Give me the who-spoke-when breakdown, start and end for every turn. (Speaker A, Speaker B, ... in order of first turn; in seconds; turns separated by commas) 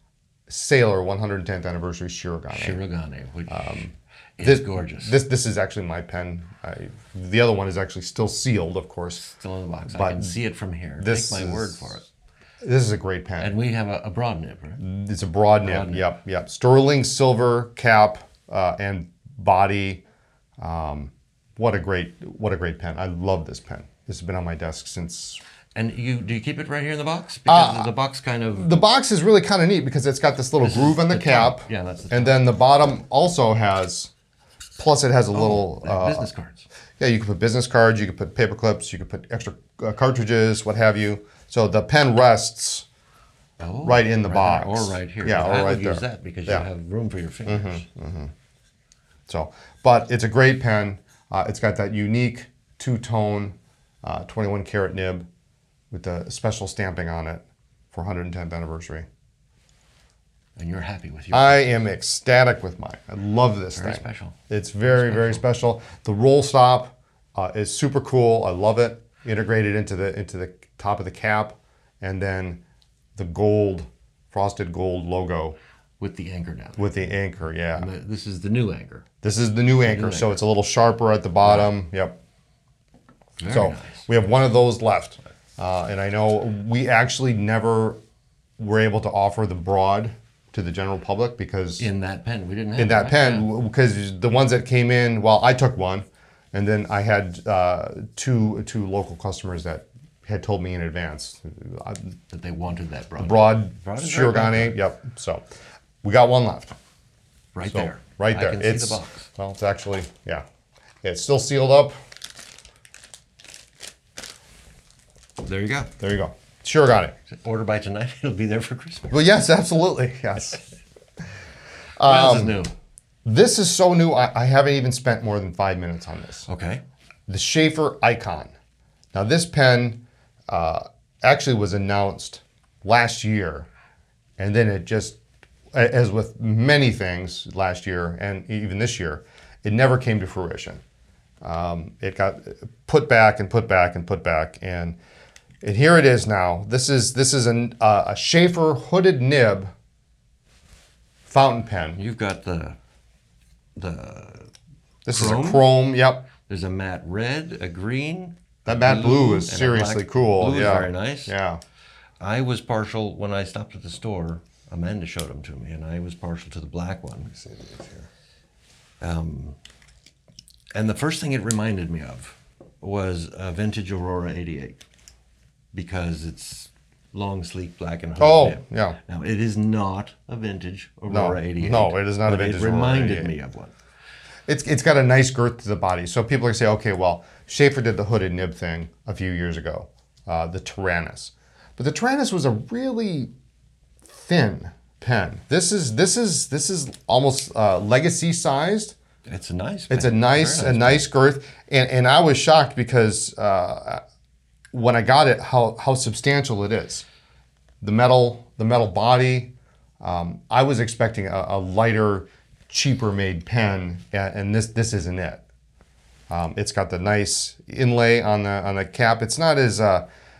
Speaker A: 0.5-2.8, Speaker B: 2.5-3.8, Speaker A: 3.5-9.2, Speaker B: 4.4-5.2, Speaker B: 9.2-12.1, Speaker A: 9.9-10.3, Speaker A: 11.0-11.9, Speaker A: 12.6-13.5, Speaker B: 13.4-14.8, Speaker A: 14.8-20.0, Speaker B: 15.6-16.1, Speaker A: 20.6-25.4, Speaker B: 25.7-28.7, Speaker A: 27.5-27.9, Speaker A: 28.5-34.1, Speaker B: 30.6-32.4, Speaker A: 34.8-36.3, Speaker B: 35.3-36.7, Speaker A: 37.0-42.9, Speaker B: 43.6-47.9, Speaker A: 43.8-46.6, Speaker A: 47.5-48.3, Speaker A: 49.3-55.2, Speaker A: 55.9-59.1, Speaker B: 60.6-61.8, Speaker A: 61.3-72.6, Speaker B: 63.7-65.4, Speaker A: 73.2-75.6, Speaker B: 76.0-77.1, Speaker A: 76.8-77.9, Speaker B: 77.7-79.1, Speaker A: 79.2-82.2, Speaker B: 79.8-80.4, Speaker B: 81.4-81.7, Speaker B: 83.4-84.0, Speaker A: 83.5-88.0, Speaker A: 88.6-91.9, Speaker B: 91.8-93.5, Speaker A: 92.8-102.2, Speaker B: 102.3-104.8, Speaker A: 103.2-105.4, Speaker A: 106.0-106.7, Speaker B: 107.5-109.3, Speaker A: 107.7-110.4, Speaker A: 111.0-111.9, Speaker B: 115.4-115.9, Speaker A: 116.0-117.1, Speaker B: 117.3-119.2, Speaker A: 119.1-120.6, Speaker A: 122.0-122.6, Speaker B: 122.0-122.7, Speaker A: 123.2-126.5, Speaker B: 126.5-126.8, Speaker A: 127.3-128.5, Speaker A: 129.1-133.7, Speaker A: 134.4-135.2, Speaker A: 135.7-140.8, Speaker A: 141.4-145.0, Speaker A: 145.6-149.7, Speaker A: 151.3-152.0, Speaker B: 151.9-152.8, Speaker B: 153.8-154.5, Speaker A: 155.1-156.3, Speaker B: 155.1-155.7, Speaker B: 156.4-161.3, Speaker A: 158.7-161.6, Speaker B: 162.2-167.3, Speaker A: 167.3-168.1, Speaker B: 169.0-169.6, Speaker B: 170.7-174.8, Speaker B: 175.7-183.7, Speaker A: 178.2-179.0, Speaker A: 181.1-183.3, Speaker A: 184.5-193.3, Speaker A: 194.0-198.9, Speaker B: 199.2-201.1, Speaker A: 199.9-204.0, Speaker A: 204.7-207.1, Speaker A: 207.8-215.4, Speaker A: 216.3-220.1